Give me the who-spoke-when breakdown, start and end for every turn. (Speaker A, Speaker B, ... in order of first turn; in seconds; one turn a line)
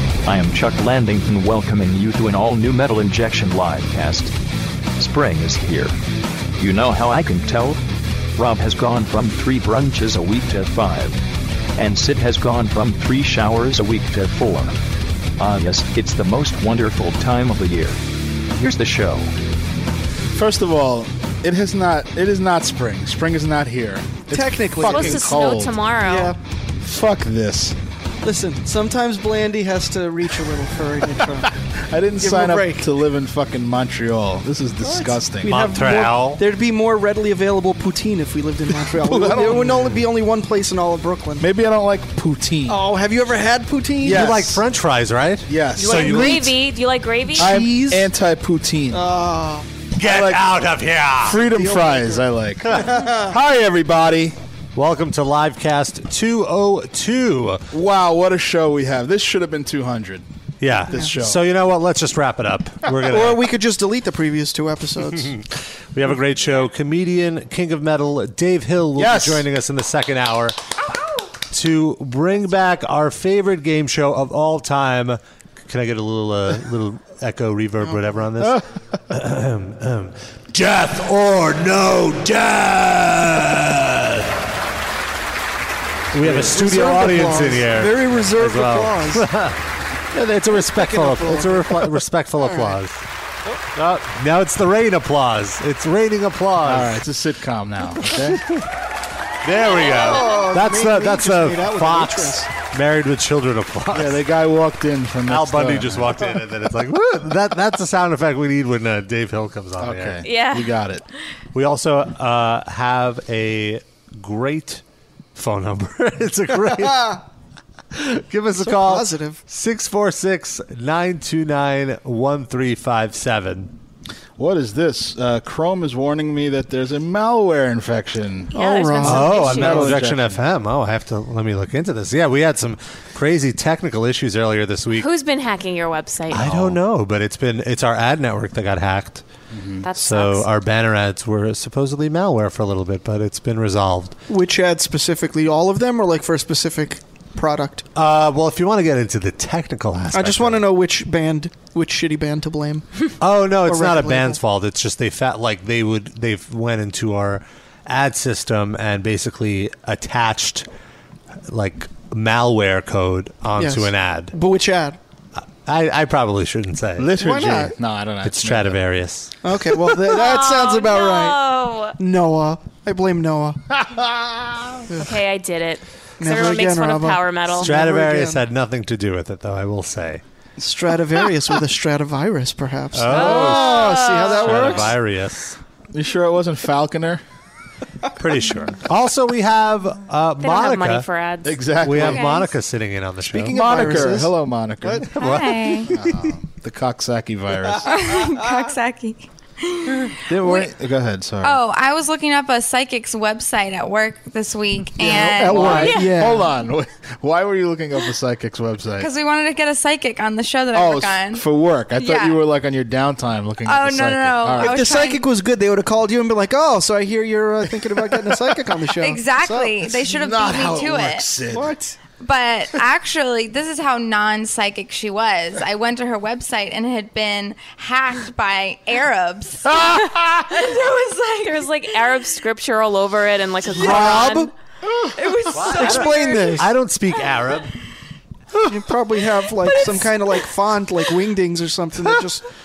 Speaker A: 0.2-4.3
Speaker A: 5.0-6.0
Speaker A: 6.6-7.8
Speaker A: 8.3-11.2
Speaker A: 11.8-14.8
Speaker A: 15.4-18.0
Speaker A: 18.6-19.3
Speaker B: 20.3-25.8
Speaker C: 24.3-25.4
Speaker D: 24.9-26.3
Speaker C: 26.0-26.4
Speaker B: 26.8-27.8
Speaker C: 28.2-31.5
Speaker B: 31.5-35.5
Speaker C: 32.2-32.9
Speaker C: 34.8-41.5
Speaker E: 35.5-36.4
Speaker B: 38.8-40.1
Speaker B: 41.4-42.8
Speaker C: 42.7-44.4
Speaker B: 44.0-44.7
Speaker E: 44.1-46.2
Speaker B: 45.5-46.5
Speaker C: 45.8-46.6
Speaker D: 45.9-47.5
Speaker C: 47.4-48.1
Speaker B: 47.4-49.0
Speaker C: 48.9-49.7
Speaker B: 50.0-50.6
Speaker E: 50.0-51.4
Speaker B: 51.2-54.4
Speaker C: 51.4-53.4
Speaker E: 54.8-57.7
Speaker B: 57.7-60.2
Speaker E: 60.6-63.4
Speaker B: 60.9-61.4
Speaker C: 63.1-65.3
Speaker E: 65.2-70.6
Speaker B: 69.0-69.5
Speaker E: 71.5-84.3
Speaker E: 86.1-89.6
Speaker B: 86.2-86.5
Speaker C: 86.2-89.3
Speaker E: 90.1-93.0
Speaker C: 90.5-92.8
Speaker E: 93.8-97.0
Speaker B: 96.6-98.4
Speaker E: 98.1-98.6
Speaker E: 99.4-104.2
Speaker C: 99.6-102.5
Speaker B: 103.9-106.3
Speaker E: 105.3-110.2
Speaker B: 109.8-111.0
Speaker D: 110.2-110.8
Speaker E: 111.5-114.8
Speaker E: 115.3-117.2
Speaker C: 116.8-117.2
Speaker E: 118.0-123.7
Speaker C: 118.6-119.4
Speaker B: 124.4-128.5
Speaker C: 128.5-129.7
Speaker D: 128.5-129.9
Speaker E: 129.0-135.1
Speaker B: 129.1-130.4
Speaker D: 135.0-136.8
Speaker E: 136.3-139.2
Speaker B: 139.5-139.9
Speaker D: 139.8-140.5
Speaker E: 140.0-144.2
Speaker C: 144.3-147.9
Speaker E: 147.9-150.6
Speaker C: 150.1-152.9
Speaker E: 153.2-160.7
Speaker C: 153.6-154.4
Speaker E: 161.5-164.3
Speaker C: 163.6-165.0
Speaker E: 165.4-167.1
Speaker B: 167.0-168.8
Speaker C: 167.2-167.8
Speaker E: 168.2-169.3
Speaker C: 169.4-173.6
Speaker D: 170.0-172.0
Speaker B: 173.7-174.8
Speaker C: 174.9-175.2
Speaker D: 175.0-177.7
Speaker C: 176.2-178.4
Speaker E: 177.6-180.2
Speaker C: 180.6-184.9
Speaker E: 182.9-185.6
Speaker D: 183.1-184.8
Speaker B: 185.9-187.2
Speaker E: 188.2-191.1
Speaker D: 190.4-191.6
Speaker B: 191.4-192.4
Speaker E: 191.8-194.1
Speaker F: 192.0-192.5
Speaker C: 193.3-195.8
Speaker B: 193.5-195.3
Speaker F: 195.2-195.9
Speaker B: 195.9-198.2
Speaker F: 197.8-200.7
Speaker B: 200.3-201.6
Speaker F: 201.4-206.0
Speaker C: 205.0-206.5
Speaker B: 205.4-209.1
Speaker D: 205.8-206.1
Speaker F: 209.0-211.4
Speaker B: 210.7-214.8
Speaker F: 211.9-212.4
Speaker F: 213.7-215.2
Speaker C: 214.6-219.9
Speaker B: 218.1-218.5
Speaker F: 219.0-221.3
Speaker B: 220.0-221.7
Speaker C: 221.5-222.0
Speaker F: 222.2-231.9
Speaker B: 229.7-230.4
Speaker D: 231.4-234.5
Speaker C: 233.7-234.5
Speaker F: 235.2-236.6
Speaker E: 235.5-237.7
Speaker C: 235.6-236.7
Speaker C: 238.6-242.4